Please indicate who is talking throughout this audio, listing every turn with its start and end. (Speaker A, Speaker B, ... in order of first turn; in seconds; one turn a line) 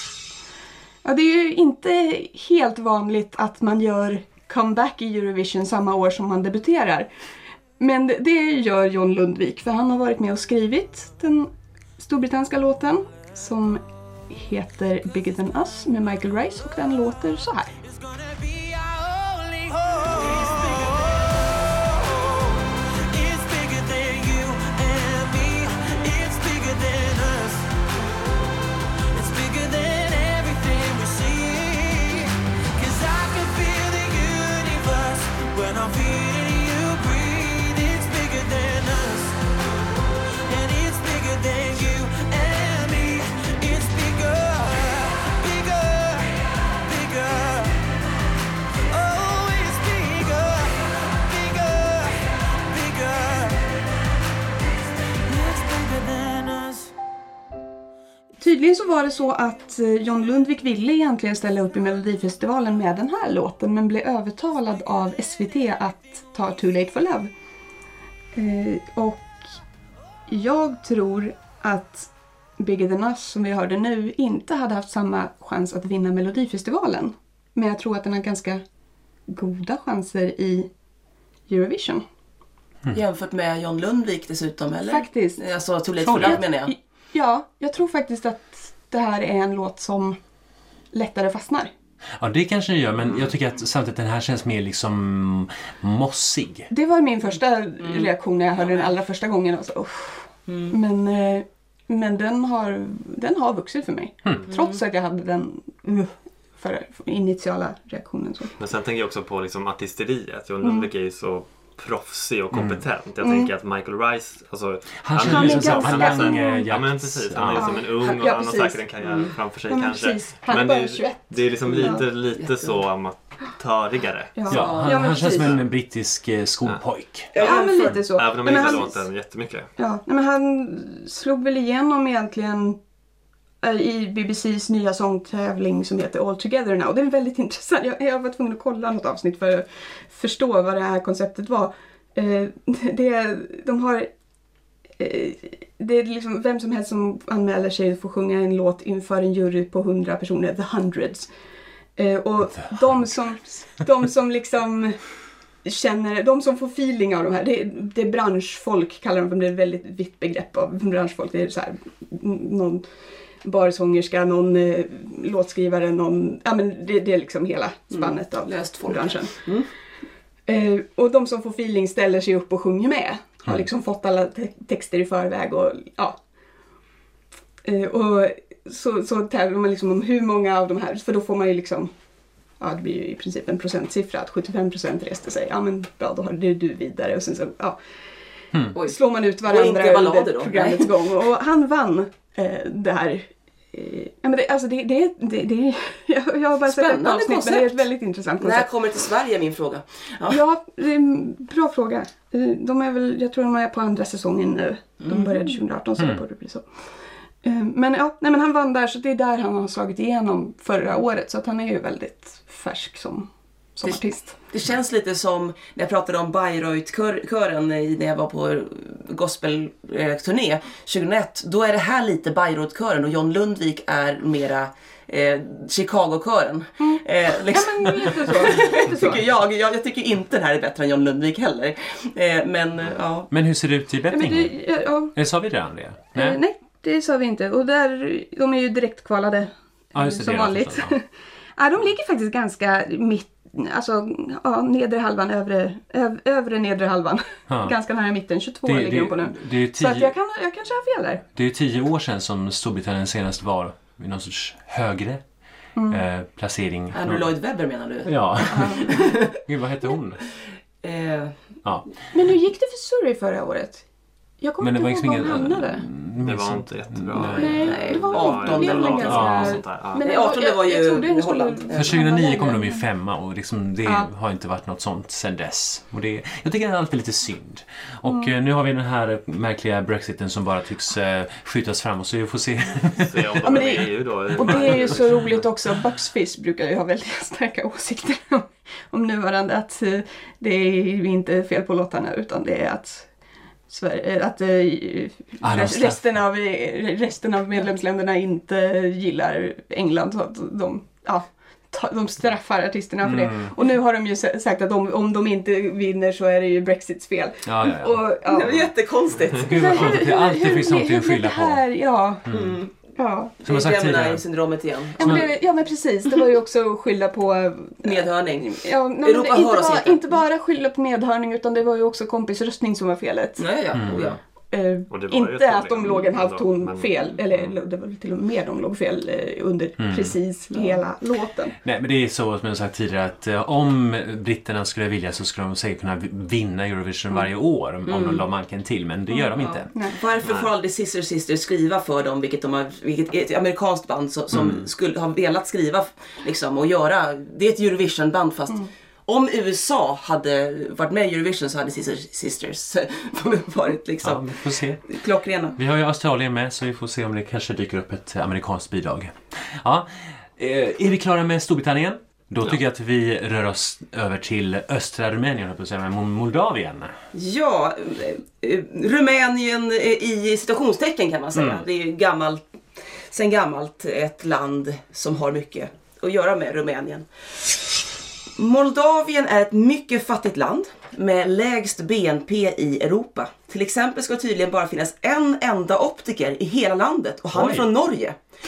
Speaker A: 1.0-7.1
Speaker A: 7.8-17.7
Speaker B: 17.8-27.7
Speaker B: 29.1-39.4
Speaker B: 40.5-47.8
Speaker B: 48.9-53.7
Speaker B: 55.2-56.9
Speaker A: 58.4-67.3
Speaker A: 68.3-69.4
Speaker A: 70.3-78.6
Speaker A: 79.3-80.7
Speaker A: 81.5-82.0
Speaker C: 82.9-86.7
Speaker A: 84.9-85.4
Speaker D: 86.0-86.4
Speaker A: 86.2-90.2
Speaker A: 90.9-91.7
Speaker D: 92.2-96.7
Speaker A: 96.7-108.5
Speaker C: 97.8-98.9
Speaker C: 100.5-100.8
Speaker C: 104.5-104.8
Speaker E: 108.6-124.5
Speaker A: 110.6-110.9
Speaker D: 112.5-112.8
Speaker A: 113.2-113.5
Speaker D: 115.0-117.8
Speaker A: 115.3-116.7
Speaker A: 117.6-118.8
Speaker C: 119.0-119.3
Speaker A: 119.7-122.0
Speaker C: 121.7-122.8
Speaker A: 124.4-125.5
Speaker D: 124.5-127.3
Speaker C: 124.5-125.0
Speaker E: 125.4-125.6
Speaker C: 127.3-128.8
Speaker A: 127.4-129.1
Speaker E: 127.4-129.7
Speaker A: 129.8-132.8
Speaker A: 133.6-144.1
Speaker A: 145.0-151.3
Speaker A: 152.0-155.0
Speaker A: 155.6-162.8
Speaker A: 163.4-169.4
Speaker C: 167.9-169.7
Speaker A: 170.5-176.2
Speaker A: 177.6-181.9
Speaker A: 182.6-187.8
Speaker C: 188.7-190.9
Speaker A: 188.9-198.7
Speaker C: 196.7-197.8
Speaker C: 198.4-200.4
Speaker A: 200.3-206.7
Speaker C: 205.0-205.6
Speaker D: 206.0-206.2
Speaker A: 207.4-214.4
Speaker C: 213.9-233.3
Speaker A: 226.8-229.1
Speaker D: 233.3-234.6
Speaker A: 234.1-235.2
Speaker D: 235.2-236.4
Speaker A: 236.1-241.0
Speaker D: 239.9-240.9
Speaker A: 241.6-251.2
Speaker D: 247.5-247.8
Speaker D: 248.7-250.2
Speaker D: 251.3-255.2
Speaker A: 255.8-256.0
Speaker D: 255.9-257.3
Speaker C: 256.9-259.4
Speaker D: 258.1-260.2
Speaker A: 258.5-259.0
Speaker C: 260.8-261.4
Speaker A: 262.1-263.8
Speaker A: 264.4-265.9
Speaker D: 264.6-267.7
Speaker E: 266.2-270.1
Speaker C: 267.3-269.4
Speaker A: 267.3-272.8
Speaker D: 269.1-269.6
Speaker C: 269.9-272.0
Speaker D: 271.7-283.8
Speaker A: 278.1-278.3
Speaker E: 283.0-285.3
Speaker A: 283.4-293.1
Speaker D: 284.4-285.1
Speaker A: 293.7-308.5
Speaker D: 295.4-296.0
Speaker D: 303.0-303.5
Speaker D: 307.5-308.1
Speaker C: 308.3-310.0
Speaker D: 309.4-311.6
Speaker A: 309.5-312.3
Speaker D: 312.3-312.6
Speaker C: 312.3-312.7
Speaker A: 313.0-313.4
Speaker C: 313.4-315.3
Speaker D: 313.4-314.2
Speaker D: 315.0-315.3
Speaker A: 315.0-323.5
Speaker C: 317.8-320.2
Speaker C: 323.4-324.2
Speaker D: 323.7-324.1
Speaker A: 324.5-331.6
Speaker E: 324.9-327.4
Speaker D: 329.8-330.2
Speaker C: 330.5-330.8
Speaker D: 331.6-339.7
Speaker C: 337.9-338.2
Speaker A: 339.1-339.9
Speaker C: 339.4-354.3
Speaker E: 340.2-340.5
Speaker D: 344.3-344.6
Speaker D: 354.0-354.8
Speaker C: 354.9-355.6
Speaker D: 355.6-366.9
Speaker C: 367.1-372.5
Speaker D: 371.4-371.6
Speaker C: 373.1-377.1
Speaker C: 378.4-388.2
Speaker D: 387.3-387.7